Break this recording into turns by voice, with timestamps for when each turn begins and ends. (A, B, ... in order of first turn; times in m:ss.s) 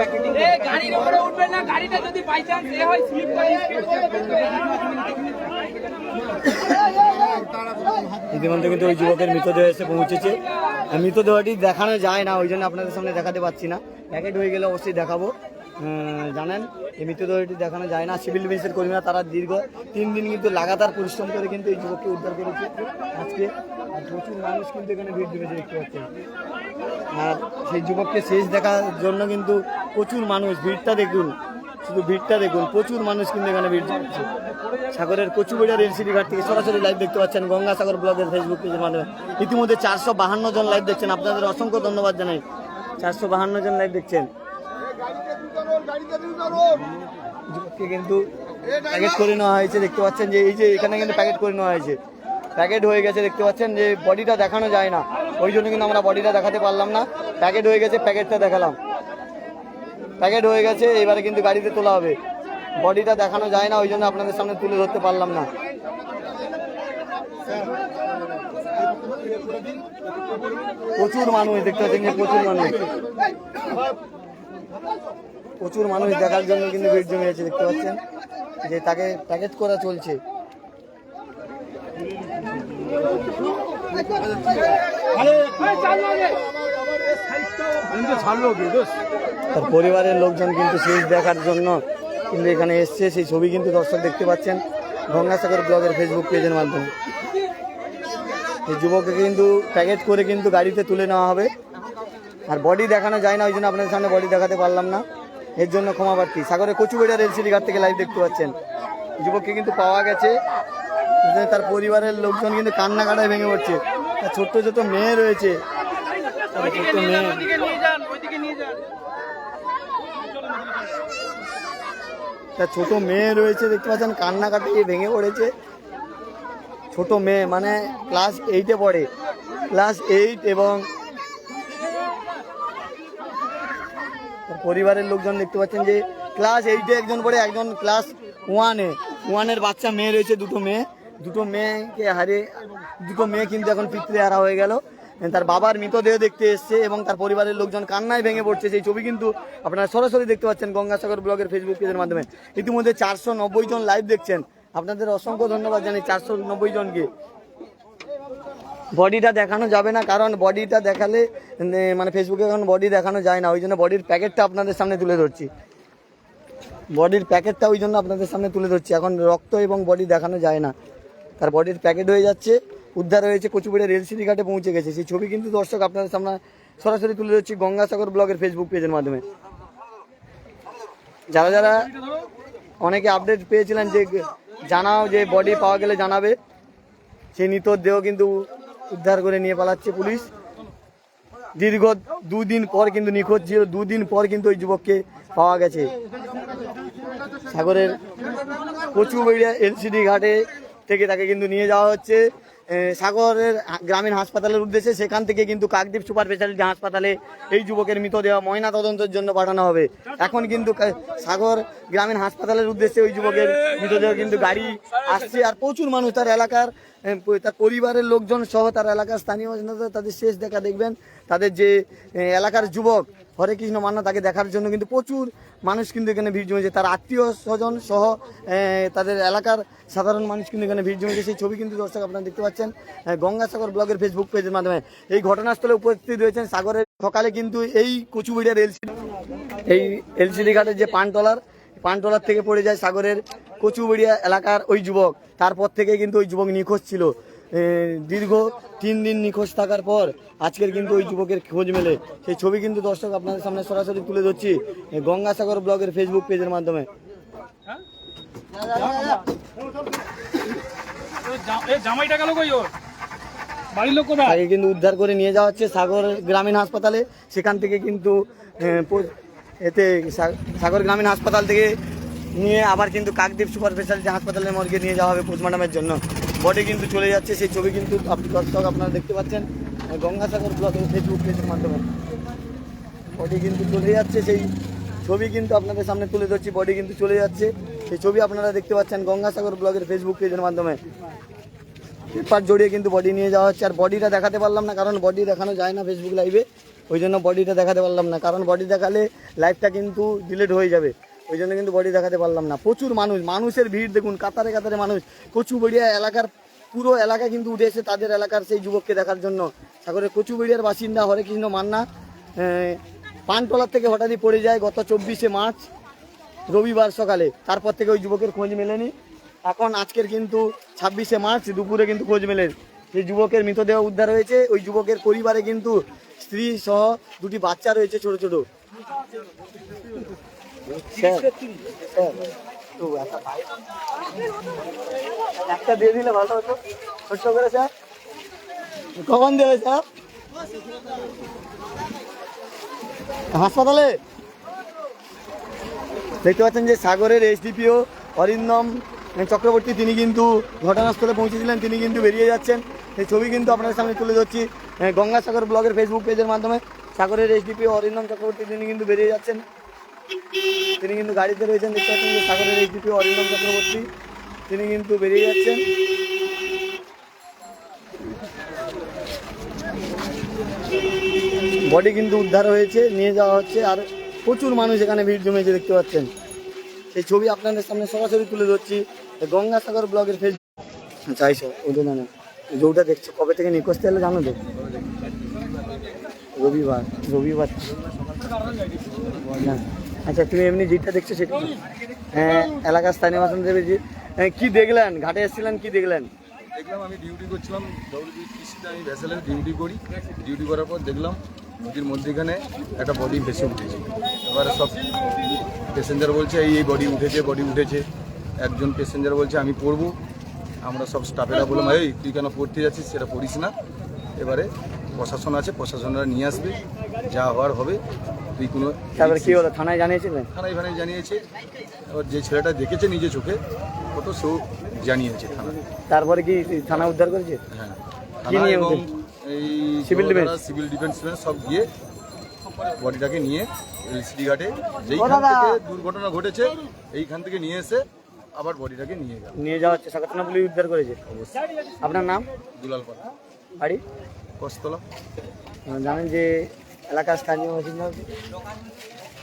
0:00.6-0:03.9 A
0:08.3-0:26.1 B
0:27.1-0:34.3 B
0:34.9-0:42.4 B
0:43.0-0:44.3 B
0:47.5-0:48.3 B
0:48.8-0:52.0 B
0:52.6-0:58.8 B
1:00.2-1:02.2 B
1:02.8-1:05.5 B
1:11.0-1:12.8 B
1:15.6-1:18.0 B
1:18.6-1:20.2 B
1:25.9-1:26.4 A
1:29.5-1:36.9 B
1:38.7-1:41.5 B
1:42.5-1:45.0 B
1:45.6-1:48.6 B
1:49.2-1:50.4 B
1:51.2-1:55.6 B
1:56.5-1:57.5 B
2:02.6-2:05.5 B
2:06.9-2:09.1 B
2:09.7-2:10.9 B
2:14.5-2:37.1 B
2:38.9-2:45.5 B
2:46.9-2:50.7 B
2:51.4-2:59.2 B
3:01.3-3:01.9 B
3:02.8-3:06.4 B
3:07.3-3:10.3 B
3:11.6-3:15.9 B
3:17.5-3:18.0 B
3:18.9-3:58.9 B
3:59.7-4:16.9 B
4:18.7-4:19.2 B
4:21.3-4:22.7 A
4:23.7-4:24.2 A
4:24.1-4:31.8 B
4:32.3-4:41.8 B
4:43.1-4:44.5 B
4:45.0-4:50.8 B
4:52.1-5:11.8 B
5:12.4-5:15.7 B
5:16.5-5:18.9 B
5:19.4-5:28.4 B
5:30.7-5:33.6 B
5:35.4-5:37.7 B
5:39.0-5:39.8 B
5:43.3-5:44.0 B
5:46.2-5:59.4 B
6:00.8-6:03.8 B
6:04.5-6:05.6 B
6:11.6-6:16.1 B
6:16.9-6:20.4 B
6:21.1-6:24.4 B
6:24.7-6:25.7 C
6:26.4-6:27.7 B
6:27.8-6:29.6 C
6:29.4-6:31.6 B
6:32.1-6:36.1 B
6:36.5-6:44.8 C
6:45.7-6:47.8 C
6:48.4-6:49.9 C
6:50.6-6:53.5 C
6:54.2-6:57.8 C
6:58.4-6:59.4 C
6:59.0-7:00.3 B
7:00.3-7:01.2 C
7:01.9-7:03.4 C
7:03.9-7:05.6 C
7:05.9-7:07.4 B
7:07.5-7:11.7 C
7:08.3-7:08.9 B
7:09.8-7:10.3 B
7:12.7-7:19.4 C
7:15.0-7:15.6 B
7:19.4-7:21.0 B
7:21.1-7:21.3 C
7:21.8-7:22.3 B
7:22.6-7:23.1 C
7:24.4-7:24.8 C
7:25.7-7:28.0 B